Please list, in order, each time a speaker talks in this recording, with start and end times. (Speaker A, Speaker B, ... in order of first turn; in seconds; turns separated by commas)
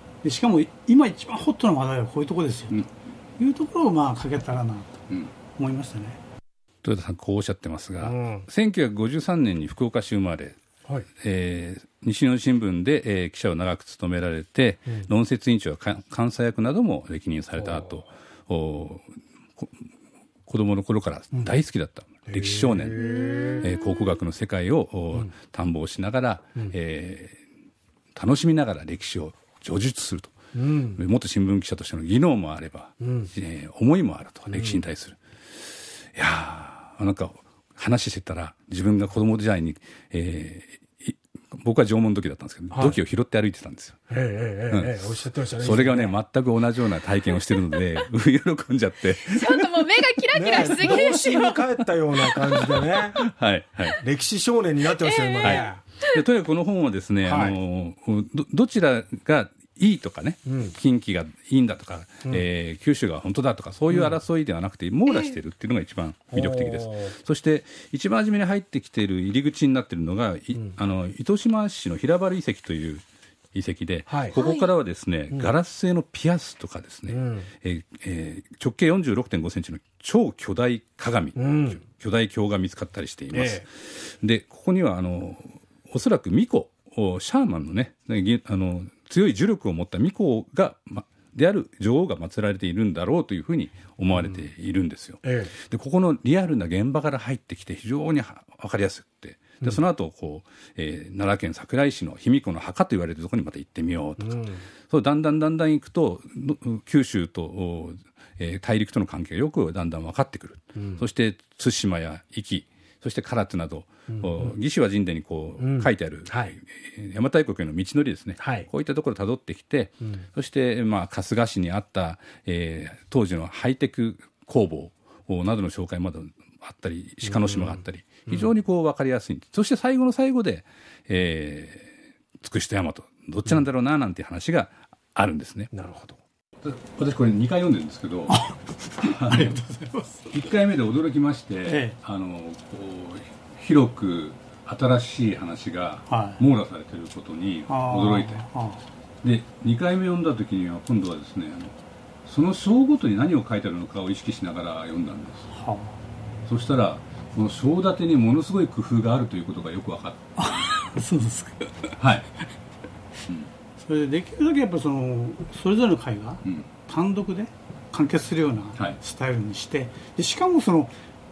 Speaker A: 0.2-2.8, Speaker A: 3.4-6.2, Speaker B: 6.8-10.6, Speaker C: 8.0-8.5, Speaker B: 11.2-19.9, Speaker C: 17.6-18.0, Speaker B: 20.5-23.0, Speaker C: 22.3-23.7, Speaker D: 23.0-23.7, Speaker B: 23.6-27.4, Speaker B: 28.1-30.3, Speaker C: 30.5-31.0, Speaker B: 30.9-44.0, Speaker C: 33.0-33.3, Speaker C: 34.5-34.8, Speaker C: 42.7-43.0, Speaker C: 44.1-46.2, Speaker B: 44.7-49.7, Speaker D: 49.3-51.6, Speaker C: 50.3-53.2, Speaker D: 52.4-52.8, Speaker B: 52.6-54.0, Speaker C: 54.0-55.8, Speaker D: 55.3-55.6, Speaker B: 55.4-73.0, Speaker C: 57.2-57.6, Speaker C: 60.5-60.8, Speaker C: 63.9-64.2, Speaker D: 65.1-65.3, Speaker C: 66.3-67.2, Speaker B: 73.5-135.7, Speaker C: 74.1-74.4, Speaker D: 74.3-74.7, Speaker C: 77.1-77.5, Speaker C: 81.4-81.8, Speaker C: 83.3-83.7, Speaker C: 95.2-95.5, Speaker C: 104.2-104.6, Speaker C: 110.8-111.0, Speaker C: 114.1-114.5, Speaker C: 115.6-116.5, Speaker C: 118.4-118.7, Speaker C: 127.2-128.5, Speaker C: 135.7-136.2, Speaker B: 136.6-138.4, Speaker A: 138.3-140.3, Speaker B: 139.0-139.6, Speaker B: 140.3-148.4, Speaker A: 141.7-142.0, Speaker A: 146.1-146.4, Speaker A: 147.7-148.8, Speaker B: 149.2-151.7, Speaker B: 152.2-155.5, Speaker A: 155.5-156.0, Speaker B: 156.5-160.2, Speaker A: 160.4-161.9, Speaker B: 162.0-162.3, Speaker A: 163.8-170.9